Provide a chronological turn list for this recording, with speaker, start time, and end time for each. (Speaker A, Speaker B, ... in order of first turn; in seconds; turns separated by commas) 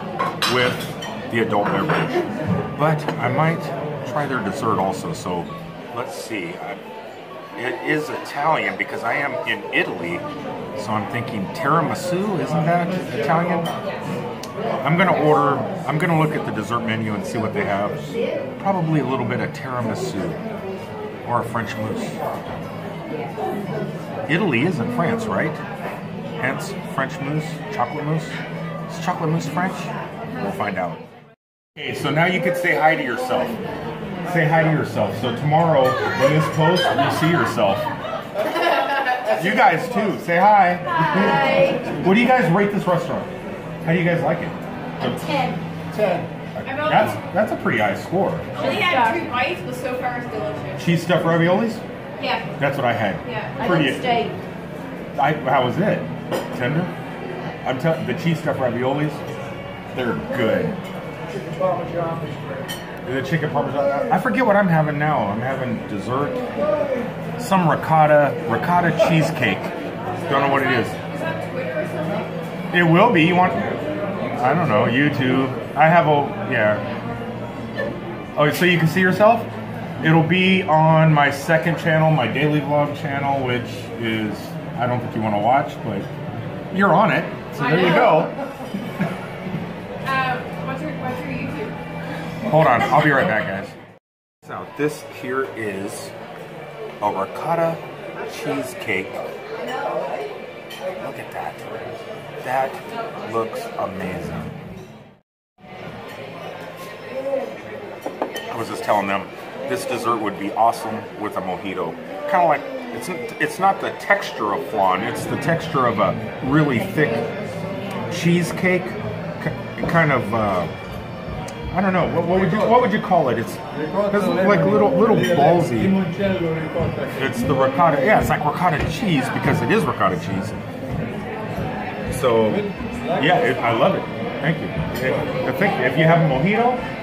Speaker A: 0.4-6.8, Speaker A: 7.5-13.7, Speaker A: 14.8-18.0, Speaker A: 18.6-20.4, Speaker A: 21.2-22.2, Speaker A: 24.3-25.6, Speaker A: 26.4-31.0, Speaker A: 31.8-33.6, Speaker A: 34.2-37.9, Speaker A: 39.4-43.3, Speaker B: 39.4-39.7, Speaker B: 40.9-42.0, Speaker A: 43.8-45.4, Speaker B: 45.0-45.6, Speaker C: 45.9-46.3, Speaker A: 46.5-48.8, Speaker B: 46.6-47.2, Speaker B: 48.5-51.0, Speaker A: 50.8-51.8, Speaker B: 52.2-52.5, Speaker A: 52.6-54.2, Speaker B: 53.2-54.4, Speaker A: 55.1-56.9, Speaker A: 57.6-59.2, Speaker A: 59.9-60.8, Speaker C: 61.3-62.7, Speaker A: 63.0-66.5, Speaker A: 67.4-69.7, Speaker B: 70.2-72.3, Speaker A: 70.3-71.0, Speaker A: 72.7-73.8, Speaker A: 74.3-76.8, Speaker A: 78.4-79.5, Speaker A: 80.0-86.1, Speaker A: 86.7-88.3, Speaker B: 87.6-88.3, Speaker B: 90.0-91.8, Speaker A: 92.5-93.7, Speaker A: 94.4-96.1, Speaker A: 97.0-99.2, Speaker A: 101.0-101.8, Speaker A: 102.4-104.5, Speaker A: 108.5-117.3, Speaker A: 118.1-120.7, Speaker A: 121.7-126.0, Speaker C: 122.3-122.8, Speaker C: 123.7-127.4, Speaker A: 127.2-130.7, Speaker A: 132.1-136.9, Speaker C: 132.4-134.0, Speaker C: 135.0-135.5